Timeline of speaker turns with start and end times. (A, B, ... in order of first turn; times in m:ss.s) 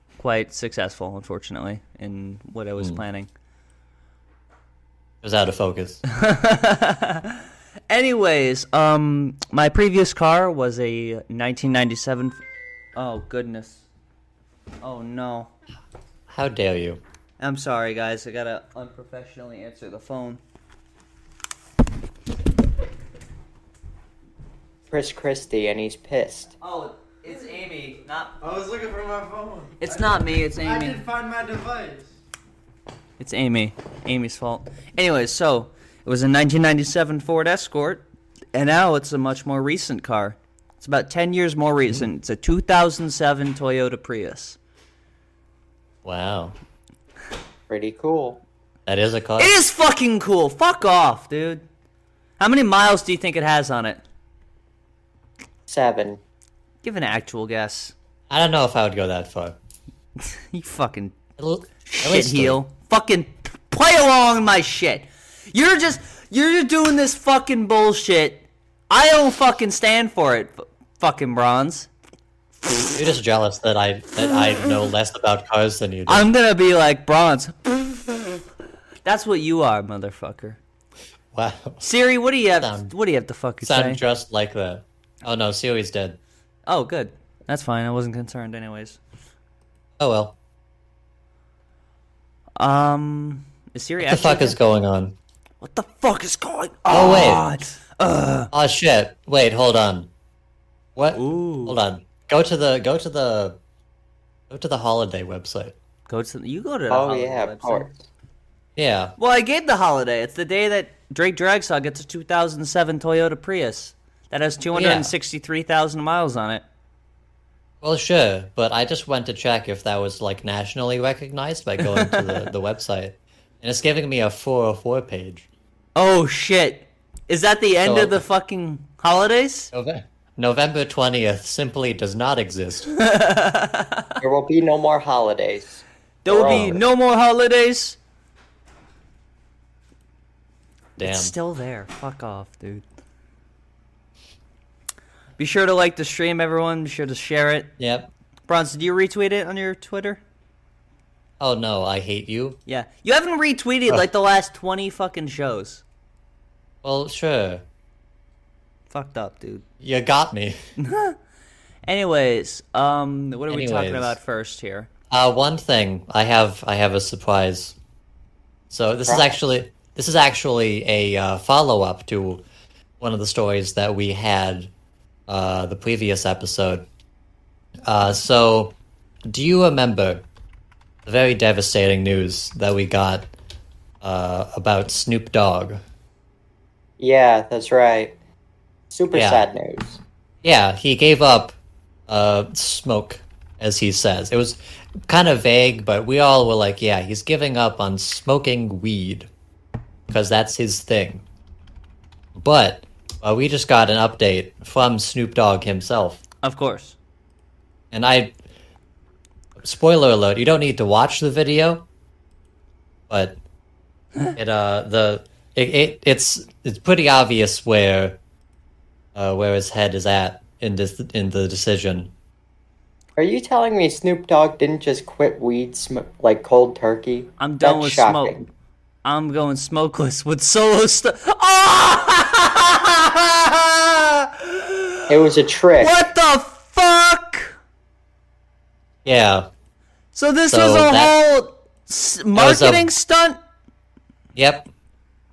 0:00.2-0:03.3 A
0:05.2-0:06.0 B
0:06.1-0:12.4 A
0:13.0-0:13.8 A
0:14.8-0:15.5 A
0:16.3-0:17.0 B
0:17.4-0:20.4 A
0:24.9-0:26.5 C
0:26.6-0:28.4 A
0:28.5-0:29.7 D
0:29.8-0:31.1 A
0:31.1-0:32.0 D
0:33.2-0:38.0 A
0:38.5-0:44.6 A
0:46.0-0:46.5 B
0:47.7-0:48.4 C
0:48.8-0:49.5 B
0:49.4-0:51.6 A
0:52.4-0:54.0 A
0:55.7-0:56.2 C
0:56.8-0:57.9 A
0:58.3-0:59.6 B
1:00.2-1:01.2 A
1:01.4-1:02.6 B
1:01.8-1:11.9 A
1:12.6-1:13.0 A
1:13.0-1:16.3 B
1:14.2-1:14.7 A
1:16.1-1:18.4 A
1:19.0-1:20.6 A
1:21.3-1:21.8 B
1:21.8-1:24.0 A
1:22.6-1:22.9 B
1:23.6-1:26.2 B
1:26.7-1:29.0 A
1:30.0-1:30.3 B
1:32.6-1:34.6 A
1:34.0-1:35.2 B
1:35.6-1:38.5 A
1:36.9-1:37.4 B
1:38.5-1:40.1 B
1:40.9-1:43.6 B
1:41.1-1:41.8 A
1:44.5-1:45.7 B
1:46.1-1:47.8 A
1:46.9-1:48.0 C
1:48.8-1:49.1 B
1:49.2-1:56.6 A
1:54.7-1:55.1 B
1:57.8-2:05.4 B
2:01.8-2:02.5 A
2:06.0-2:09.7 A
2:07.8-2:08.2 B
2:09.7-2:12.9 B
2:13.0-2:14.1 A
2:14.2-2:16.8 C
2:16.2-2:18.0 A
2:16.3-2:16.8 B
2:21.0-2:21.3 B
2:21.0-2:22.8 A
2:25.4-2:27.7 A
2:27.8-2:28.1 B
2:28.5-2:30.2 A
2:31.4-2:32.6 B
2:32.7-2:35.8 A
2:36.8-2:37.6 B
2:38.9-2:39.6 A
2:39.8-2:40.6 B
2:40.8-2:41.2 A
2:41.8-2:44.9 A
2:43.5-2:44.2 B
2:45.1-2:47.7 B
2:48.7-2:52.4 B
2:49.0-2:49.3 C
2:53.0-2:54.7 B
2:55.3-2:56.8 B
2:57.8-2:58.7 B
2:59.3-3:00.2 B
3:01.0-3:03.3 B
3:04.0-3:05.8 B
3:07.0-3:08.1 C
3:08.9-3:10.0 C
3:09.1-3:09.4 B
3:10.4-3:11.6 B
3:12.1-3:19.3 B
3:20.1-3:21.2 B
3:22.4-3:26.2 B
3:26.4-3:27.0 A
3:27.9-3:28.3 B
3:29.6-3:31.8 B
3:33.1-3:33.4 B
3:34.3-3:38.2 B
3:39.1-3:42.1 B
3:43.2-3:48.4 C
3:47.4-3:48.4 A
3:49.0-3:55.1 A
3:55.1-3:56.0 C
3:55.8-3:57.5 A
3:59.0-3:59.4 B
4:00.1-4:03.4 A
4:00.5-4:01.1 B
4:02.3-4:02.9 B
4:04.3-4:04.7 B